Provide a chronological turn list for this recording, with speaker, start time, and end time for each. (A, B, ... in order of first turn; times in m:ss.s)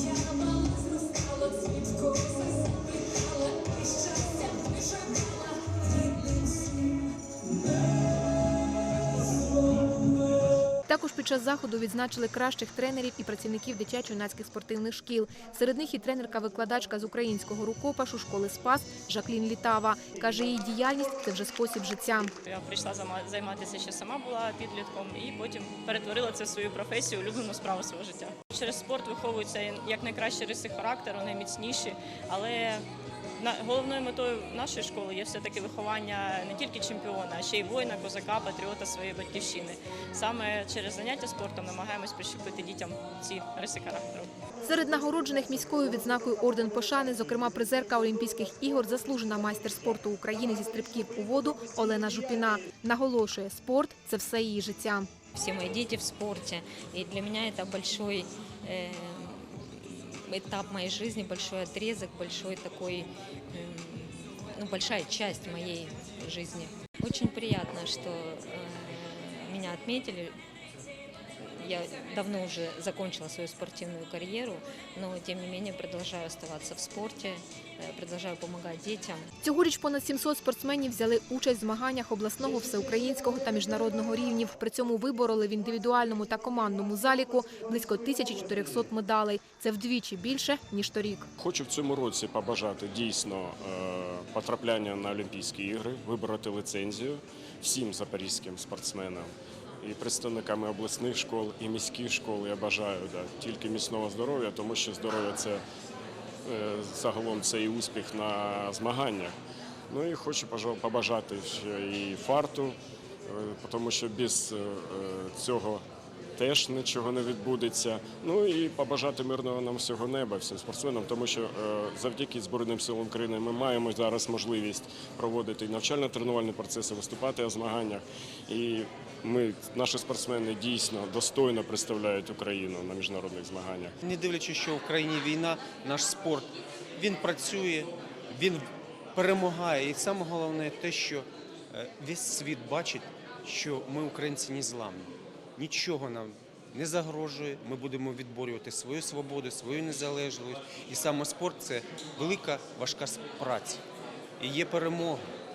0:00.6-0:01.3 A
0:03.6-0:04.5 A
0:10.8-0:22.3 B
0:22.4-0:32.8 A
0:33.4-0:44.3 A
0:44.6-0:55.1 B
0:55.3-1:10.4 C
1:11.4-1:19.3 C
1:19.4-1:31.3 B
1:31.4-1:45.6 D
1:46.4-1:49.3 D
1:49.9-1:52.8 D
1:53.3-1:55.8 D
1:56.4-2:13.9 D
2:14.0-2:33.8 E
2:34.4-2:35.3 E